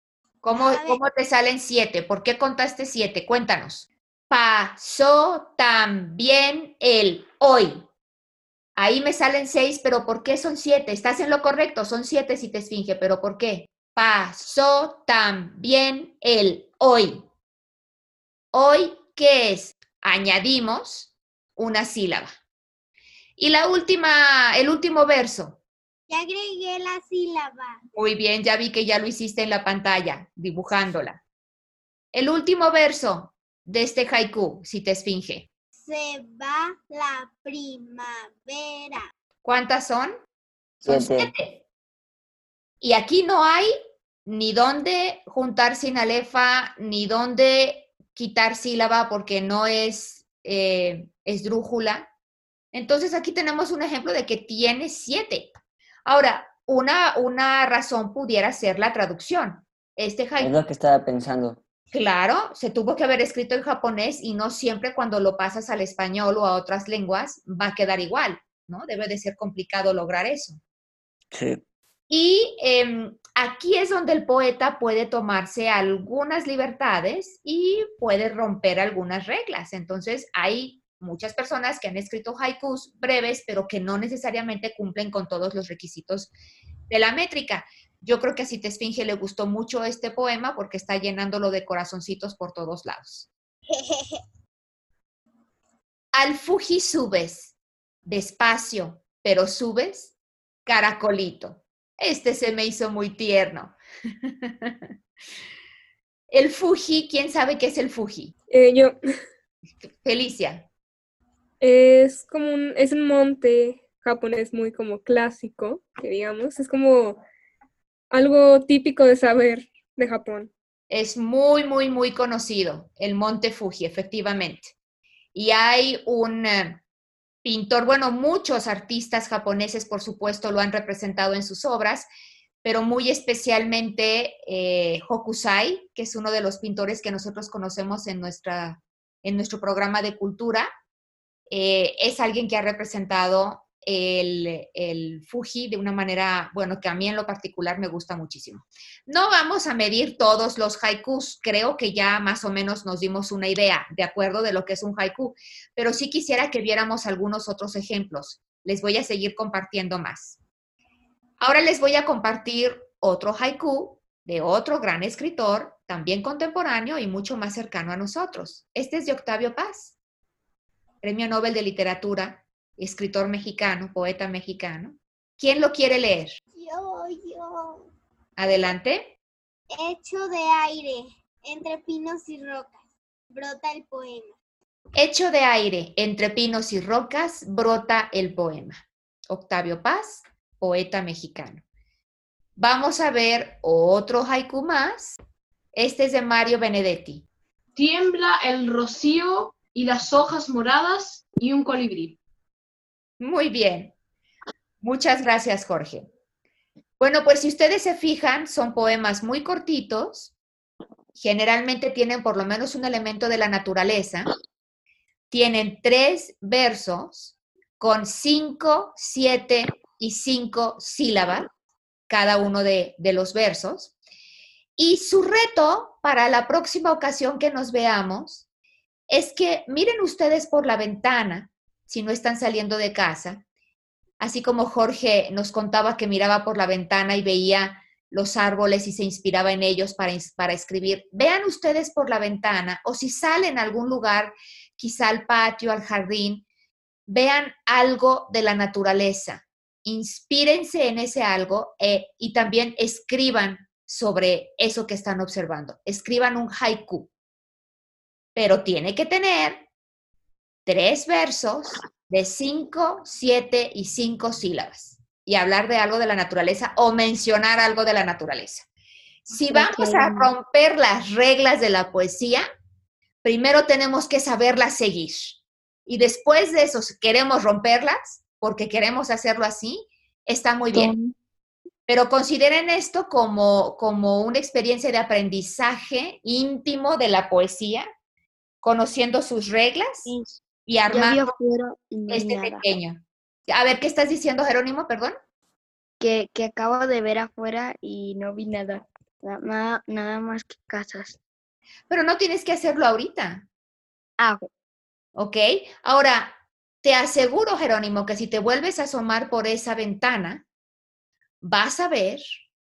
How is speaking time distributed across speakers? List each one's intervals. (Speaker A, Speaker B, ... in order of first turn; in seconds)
Speaker A: 0.4-7.8, 8.8-17.2, 18.5-22.3, 23.4-25.6, 27.9-31.2, 32.1-35.5, 39.4-40.2, 40.9-41.6, 42.8-43.7, 44.3-52.1, 52.7-55.5, 56.0-60.5, 61.9-70.6, 72.1-86.3, 86.9-93.3, 96.1-97.5, 98.0-100.1, 100.7-104.9, 106.3-108.3, 110.0-110.7, 120.9-124.7, 125.3-126.8, 127.4-132.1, 132.6-140.7, 141.5-160.4, 161.4-169.9, 171.0-176.4, 178.4-179.2, 185.0-191.6, 192.6-195.2, 195.7-197.3, 203.2-203.9, 204.8-206.1, 207.0-210.3, 211.2-214.3, 215.3-221.5, 222.1-223.9, 224.8-228.4, 229.1-233.4, 234.2-246.4, 247.1-257.1, 258.4-259.7, 260.7-268.7, 269.3-272.5, 273.2-280.9, 281.9-287.9, 288.6-290.1, 290.7-291.2, 292.1-295.2, 301.9-303.5, 305.2-310.4, 311.4-312.2
Speaker B: 0.6-1.0, 26.1-27.8, 35.8-39.0, 93.7-94.2, 176.6-177.9, 179.7-184.4
Speaker C: 40.8-41.3, 60.4-61.6, 71.3-71.6
Speaker D: 108.5-109.0, 111.6-117.2, 118.1-120.5
Speaker E: 197.8-202.2
Speaker F: 269.5-270.3, 280.7-281.1, 290.1-290.4, 290.9-292.7, 296.0-301.2, 304.2-304.5